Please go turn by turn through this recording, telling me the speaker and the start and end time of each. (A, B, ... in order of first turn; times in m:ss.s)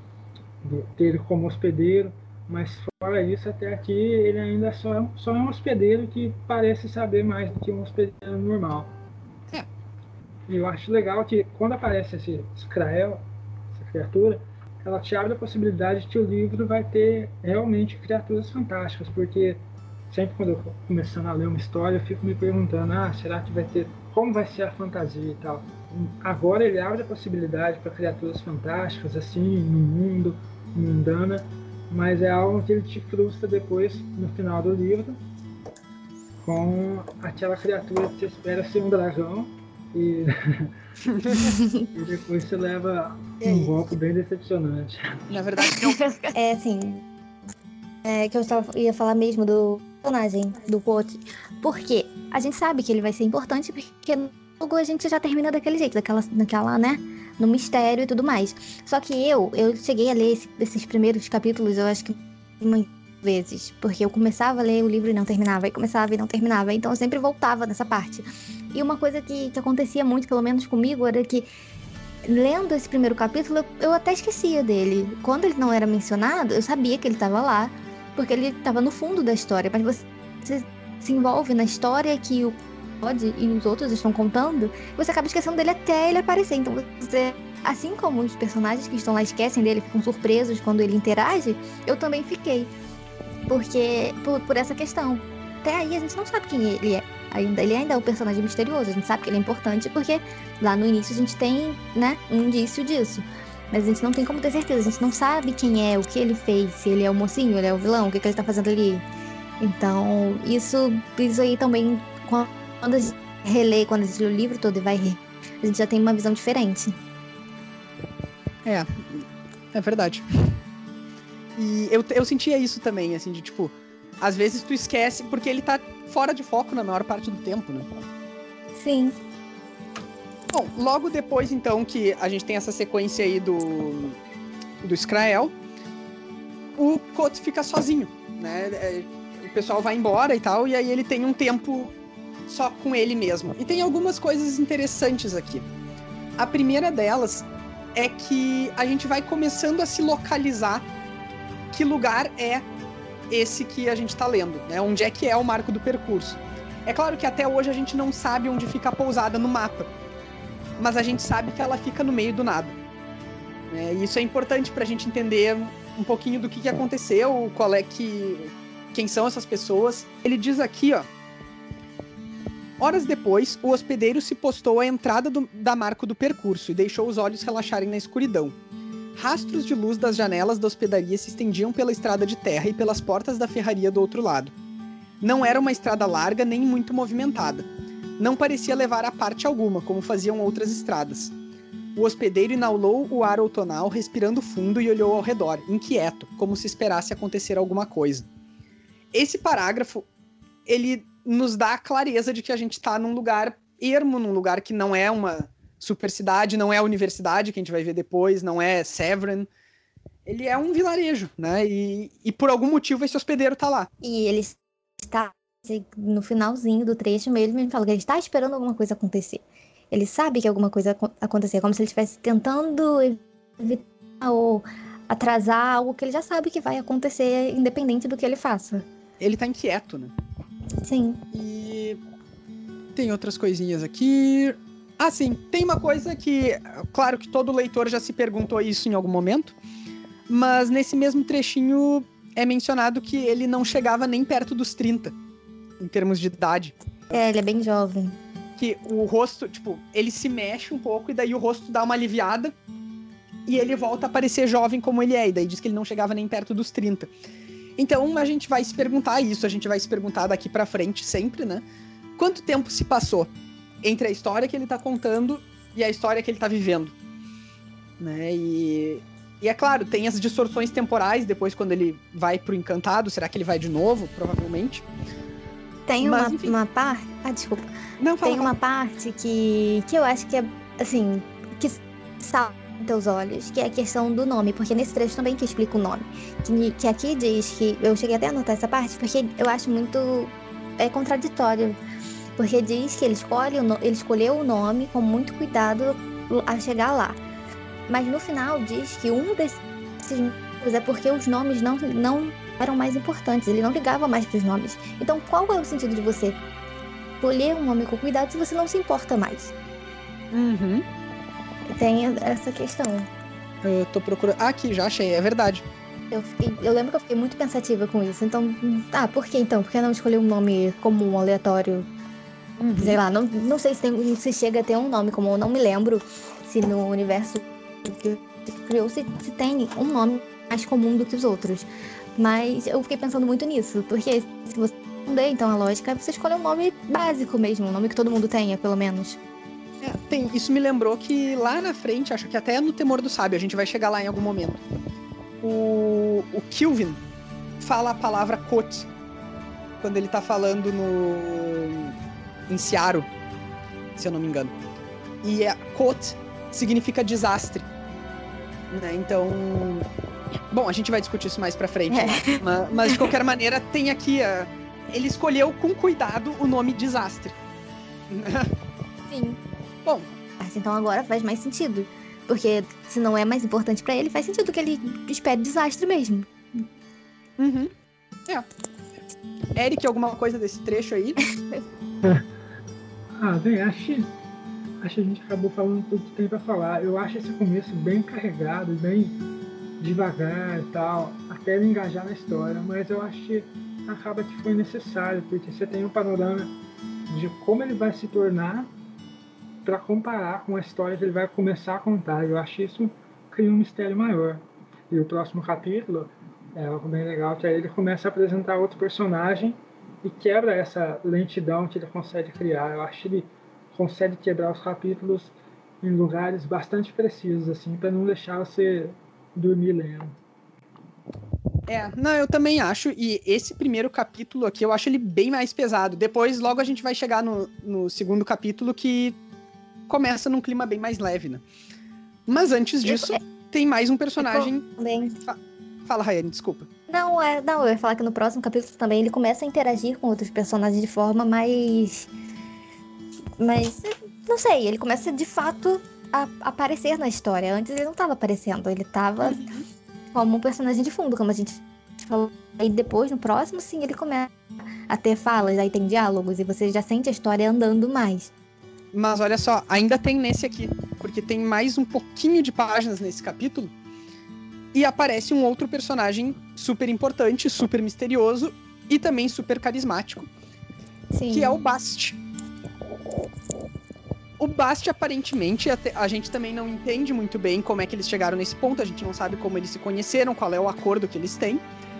0:00.6-0:08.9 A
0:10.5-0:35.2 A
0:36.4-0:40.7 A
0:41.0-0:41.5 B
0:41.5-0:41.9 C
0:41.9-0:45.2 A
0:43.4-0:43.8 B
0:45.3-0:46.0 B
0:45.6-0:47.0 C
0:48.0-1:11.5 C
1:12.2-1:32.7 C
1:33.5-1:49.0 C
1:49.6-1:57.0 C
1:58.6-2:00.6 B
2:01.6-2:07.9 B
2:08.8-2:09.2 C
2:10.5-2:14.2 B
2:14.8-2:15.5 B
2:16.8-2:21.9 B
2:22.5-2:25.6 B
2:26.4-2:30.9 B
2:31.7-2:32.6 B
2:33.3-2:39.9 B
2:40.8-2:42.8 B
2:43.7-2:51.1 B
2:52.8-2:58.5 B
2:59.1-3:04.5 B
3:05.2-3:07.7 B
3:08.2-3:11.3 B
3:11.9-3:18.2 B
3:19.1-3:20.0 B
3:20.6-3:29.5 B
3:30.2-3:33.9 B
3:34.0-3:48.8 C
3:49.2-3:50.1 B
3:50.8-3:51.2 C
3:51.3-3:52.0 B
3:52.9-3:59.5 B
4:00.3-4:05.1 B
4:05.8-4:06.7 B
4:07.1-4:08.2 C
4:08.6-4:12.5 B
4:13.5-4:17.1 B
4:17.8-4:21.6 B
4:22.2-4:23.3 B
4:23.8-4:26.9 B
4:28.0-4:34.8 B
4:35.9-4:37.7 C
4:36.0-4:36.6 B
4:38.0-4:38.5 B
4:38.2-4:51.8 C
4:52.4-4:57.2 C
4:57.9-5:06.4 C
5:07.2-5:09.5 C
5:10.3-5:10.8 B
5:11.7-5:13.1 C
5:13.6-5:15.6 B
5:16.1-5:21.9 C
5:22.6-5:23.0 B
5:22.8-5:39.2 C
5:39.8-5:44.6 B
5:45.4-5:47.0 B
5:47.6-5:48.9 B
5:49.8-5:51.9 B
5:52.5-5:53.1 B
5:54.0-5:54.5 B
5:55.2-5:57.6 B
5:58.7-5:59.9 B
6:00.5-6:07.3 B
6:01.9-6:02.4 C
6:08.1-6:08.5 B
6:09.1-6:09.4 C
6:10.4-6:16.6 C
6:17.4-6:17.7 B
6:19.5-6:21.2 B
6:23.2-6:24.1 A
6:24.8-6:29.2 A
6:29.8-6:36.5 A
6:37.1-6:38.7 A
6:39.6-7:00.2 A
7:01.7-7:09.2 B
7:09.9-7:11.4 B
7:12.3-7:14.6 B
7:12.8-7:13.2 C
7:14.2-7:15.1 C
7:15.2-7:16.7 B
7:16.9-7:22.1 C
7:23.4-7:29.4 C
7:29.2-7:29.6 B
7:30.1-7:34.3 C
7:34.9-7:38.3 C
7:38.9-7:43.7 B
7:44.7-7:50.3 B
7:51.1-7:51.6 C
7:51.3-7:52.2 B
7:54.4-8:01.6 B